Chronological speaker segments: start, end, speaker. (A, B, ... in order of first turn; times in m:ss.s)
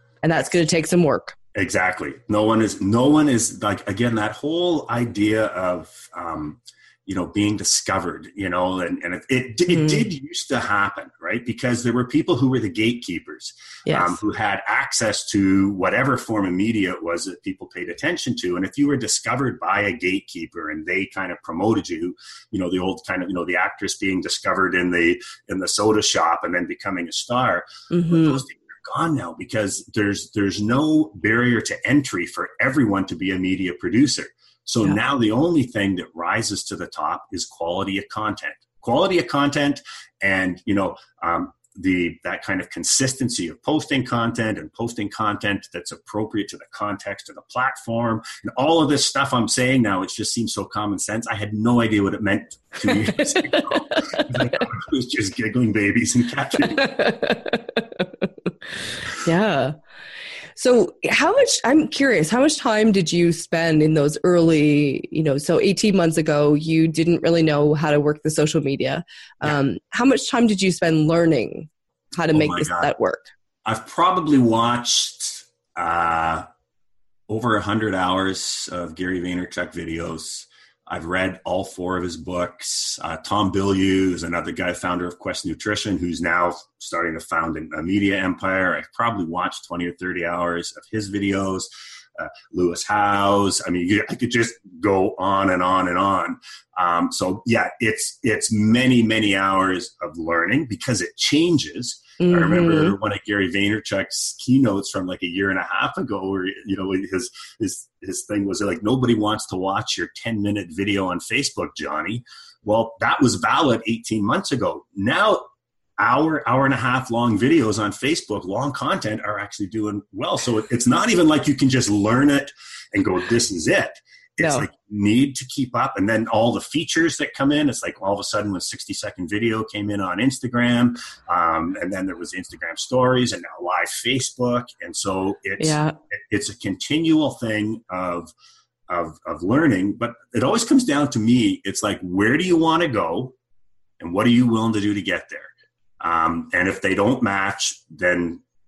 0:00.2-0:01.4 A
0:01.5-0:56.9 B
0:09.7-0:10.0 A
0:13.8-0:14.2 A
0:27.9-0:28.4 A
0:52.9-0:54.3 A
0:56.7-0:58.3 A
0:59.2-0:59.7 A
1:00.6-1:13.3 A
1:12.3-1:12.9 B
1:13.6-1:16.4 B
1:17.3-1:55.4 B
1:42.2-1:42.9 A
1:56.0-2:18.3 B
2:04.4-2:04.7 A
2:15.6-2:16.0 A
2:18.9-2:23.3 B
2:24.0-2:28.4 B